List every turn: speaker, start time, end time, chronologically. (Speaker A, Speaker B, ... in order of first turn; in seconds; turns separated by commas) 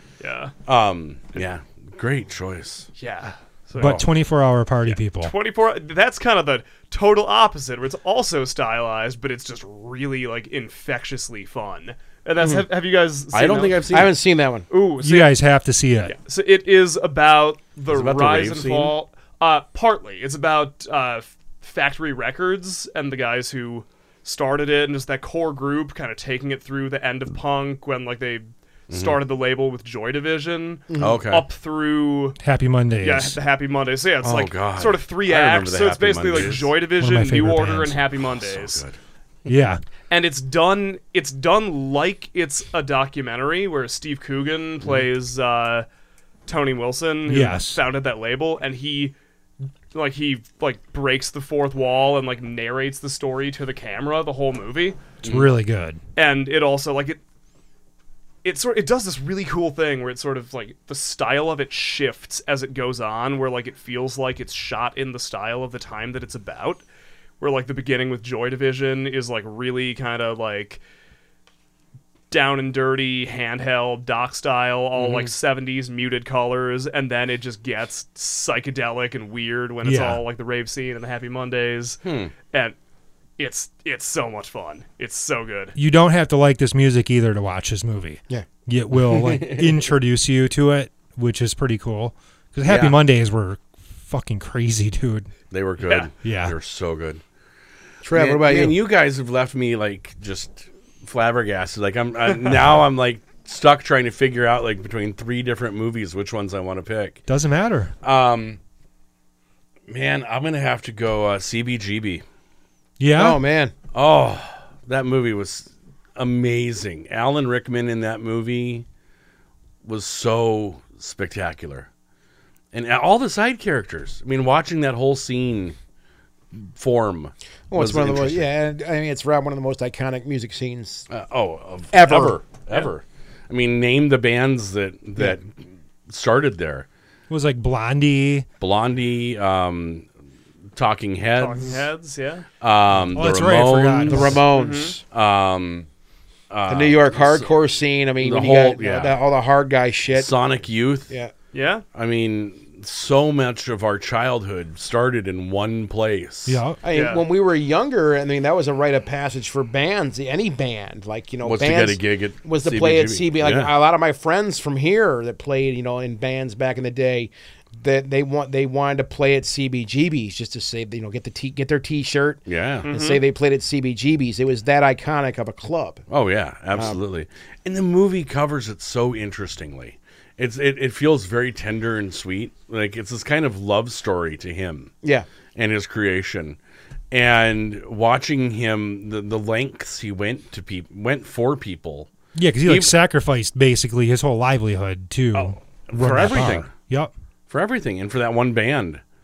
Speaker A: 0.2-0.5, Speaker B: 0.7-2.9, Speaker A: 3.0-4.0, Speaker C: 3.8-5.3, Speaker B: 3.8-4.0, Speaker A: 4.8-13.9, Speaker D: 12.4-12.6, Speaker B: 13.3-14.1, Speaker D: 13.9-14.7, Speaker A: 14.7-15.3, Speaker C: 15.0-16.1, Speaker A: 16.0-32.4, Speaker B: 17.9-18.9, Speaker B: 28.9-29.2, Speaker D: 30.9-31.2, Speaker B: 31.0-31.4, Speaker C: 32.4-33.4, Speaker A: 33.0-38.8, Speaker B: 34.2-36.7, Speaker C: 37.0-38.0, Speaker B: 38.2-39.0, Speaker C: 39.5-39.8, Speaker A: 40.1-45.9, Speaker A: 46.5-49.1, Speaker C: 47.2-47.8, Speaker A: 49.9-55.0, Speaker B: 55.2-55.5, Speaker C: 55.2-56.0, Speaker A: 56.1-57.2, Speaker A: 58.4-66.8, Speaker A: 67.4-70.8, Speaker A: 72.3-82.8, Speaker B: 75.0-75.3, Speaker C: 79.8-80.2, Speaker B: 82.0-82.3, Speaker A: 83.4-85.8, Speaker C: 85.7-95.3, Speaker B: 89.0-89.8, Speaker D: 92.7-92.9, Speaker B: 95.5-97.2, Speaker A: 95.8-96.1, Speaker C: 96.2-96.5, Speaker D: 98.0-98.7, Speaker B: 98.1-107.2, Speaker C: 107.3-107.9, Speaker B: 108.0-108.6, Speaker B: 109.9-112.2, Speaker C: 113.0-113.4, Speaker D: 113.1-113.7, Speaker B: 113.9-118.8, Speaker B: 119.8-121.9, Speaker B: 122.7-125.8, Speaker B: 126.5-128.5, Speaker D: 127.7-131.1, Speaker B: 131.1-136.8, Speaker D: 131.9-132.4, Speaker C: 137.3-138.4, Speaker B: 138.6-140.1, Speaker B: 140.8-141.9, Speaker A: 141.4-142.4, Speaker B: 142.6-144.4, Speaker C: 143.1-144.4, Speaker D: 144.1-145.0, Speaker A: 144.5-144.9, Speaker B: 145.1-145.9, Speaker B: 146.5-147.6, Speaker D: 146.7-150.3, Speaker B: 148.2-149.2, Speaker B: 150.1-151.1, Speaker A: 151.5-151.8, Speaker B: 151.9-156.6, Speaker C: 156.4-156.8, Speaker D: 156.8-176.0, Speaker A: 156.9-157.2, Speaker B: 161.4-163.7, Speaker B: 172.5-172.9, Speaker A: 172.8-173.2, Speaker B: 176.1-184.9, Speaker B: 185.6-186.6, Speaker B: 187.1-192.1, Speaker C: 192.3-197.1, Speaker B: 192.7-192.9, Speaker B: 195.3-196.7, Speaker B: 197.5-199.0